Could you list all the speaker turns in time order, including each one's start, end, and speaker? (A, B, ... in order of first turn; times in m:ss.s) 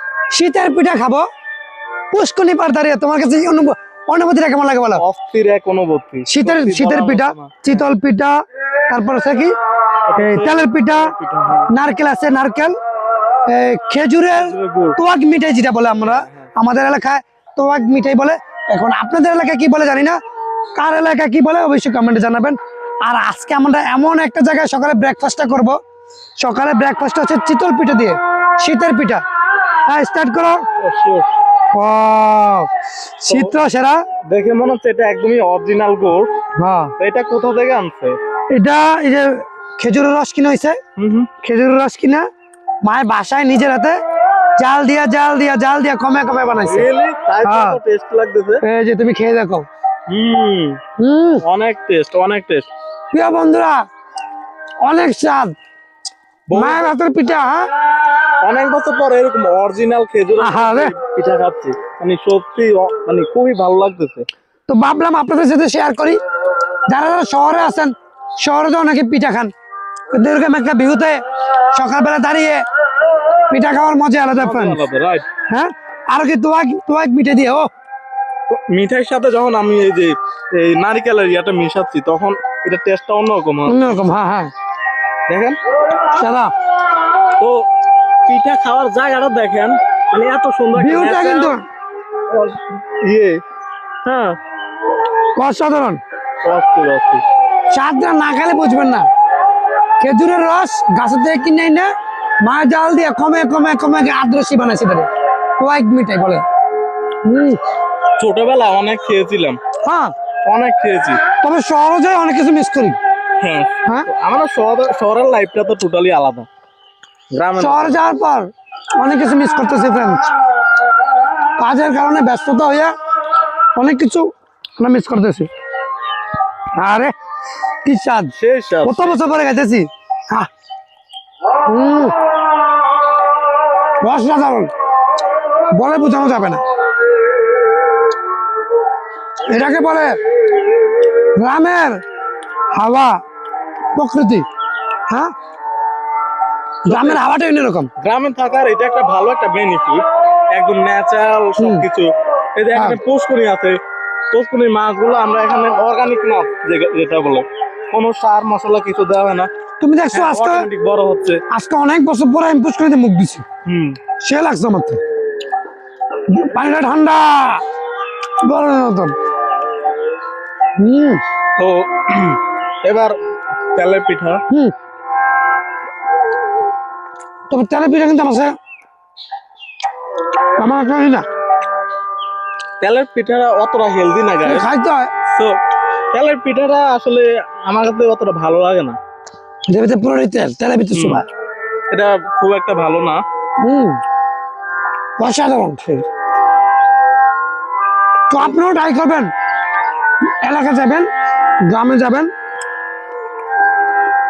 0:00.3-0:01.2 A
0:02.1-0:05.0 A
0:05.0-0:07.8 B
0:06.2-0:08.4 A
0:08.9-0:09.5 A
0:10.1-0:11.7 B
0:10.2-0:11.1 A
0:11.7-0:12.8 A
0:13.5-0:20.2 A
0:14.3-0:15.0 B
0:16.0-0:16.5 B
0:20.7-0:25.8 A
0:26.4-0:29.2 A
0:29.9-0:30.6 A
0:30.8-0:31.3 B
0:31.7-0:32.7 A
0:33.2-0:34.0 A
0:33.3-0:33.6 B
0:34.2-0:36.3 B
0:36.6-0:36.9 A
0:37.0-0:38.2 B
0:38.5-0:40.8 A
0:41.0-0:41.3 B
0:41.4-0:42.3 A
0:42.8-0:44.0 A
0:44.6-0:46.9 A
0:46.6-0:48.6 B
0:47.4-0:47.8 A
0:48.6-0:49.6 A
0:50.1-0:50.8 B
0:51.0-0:51.4 A
0:51.4-0:52.7 B
0:53.1-0:53.8 A
0:54.8-0:55.5 A
0:56.5-0:56.9 B
0:56.5-0:57.7 A
0:58.4-1:04.3 B
1:00.4-1:00.9 A
1:04.7-1:06.2 A
1:06.9-1:09.5 A
1:10.1-1:12.6 A
1:13.5-1:14.8 A
1:14.4-1:15.2 B
1:15.5-1:17.7 A
1:18.5-1:24.1 B
1:23.7-1:24.5 A
1:25.3-1:25.6 B
1:26.1-1:26.5 A
1:27.4-1:27.6 B
1:28.3-1:31.5 B
1:30.7-1:31.6 A
1:32.3-1:33.4 B
1:34.0-1:34.4 B
1:35.4-1:36.0 A
1:36.4-1:37.2 B
1:37.7-1:39.1 A
1:40.0-1:41.9 A
1:42.4-1:46.4 A
1:47.2-1:47.6 A
1:48.2-1:49.6 B
1:49.8-1:50.1 A
1:50.4-1:51.2 B
1:51.4-1:53.0 A
1:53.4-1:56.5 B
1:57.3-1:58.0 B
1:57.6-2:00.3 A
2:01.6-2:02.9 A
2:03.8-2:04.3 A
2:04.8-2:05.5 A
2:06.8-2:07.1 A
2:07.8-2:10.5 A
2:08.4-2:09.2 B
2:11.6-2:12.1 A
2:14.0-2:14.7 A
2:15.7-2:16.6 A
2:19.5-2:20.1 A
2:21.4-2:22.0 A
2:22.7-2:23.2 A
2:24.0-2:24.4 A
2:26.8-2:27.9 A
2:26.9-2:27.2 B
2:28.0-2:33.8 B
2:31.6-2:31.8 A
2:34.3-2:39.5 B
2:39.8-2:40.7 A
2:40.1-2:41.4 B
2:41.5-2:43.4 A
2:43.6-2:44.0 B
2:44.2-2:45.0 A
2:46.3-2:47.6 A
2:48.4-2:49.1 A
2:50.8-2:51.2 A
2:51.6-2:53.2 B
2:53.7-2:54.4 B
2:57.5-2:58.5 A
3:00.6-3:01.2 A
3:02.8-3:04.7 B
3:04.4-3:05.1 A
3:05.3-3:05.6 B
3:06.1-3:09.0 B
3:09.7-3:11.2 A
3:10.9-3:11.2 B
3:11.9-3:13.2 B
3:13.6-3:14.0 A
3:15.2-3:16.0 A
3:18.3-3:19.3 A
3:20.3-3:21.1 A
3:21.6-3:22.3 A